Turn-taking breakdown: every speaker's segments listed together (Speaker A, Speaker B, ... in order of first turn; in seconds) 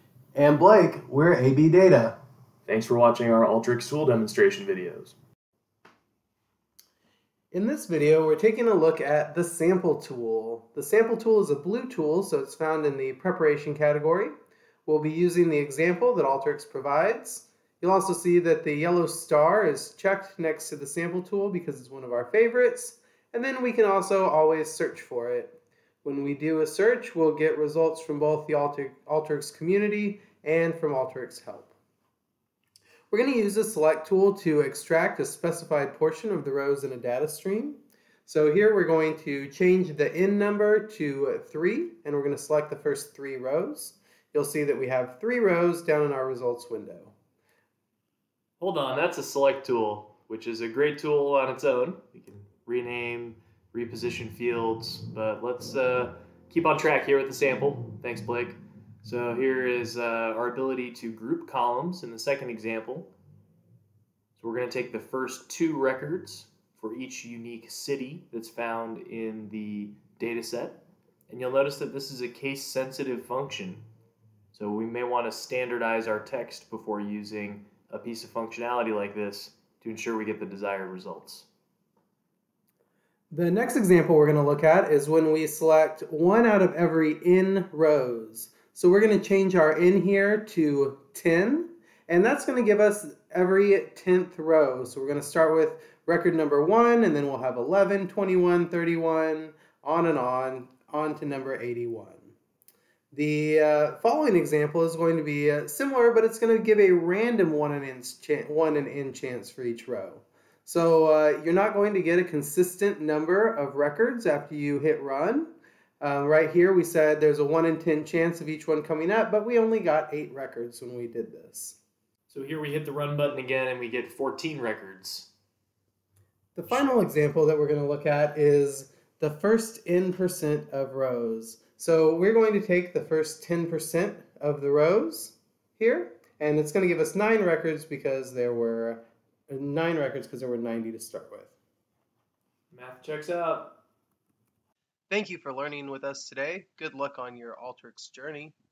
Speaker A: 0.3-2.2, 7.5-14.3, 14.9-31.7, 33.1-47.1, 83.3-102.3, 103.1-121.8, 126.6-141.5, 145.1-148.6
Speaker B: 2.7-5.2, 48.6-63.1, 64.4-73.8, 74.5-81.5, 122.3-125.3, 142.7-143.8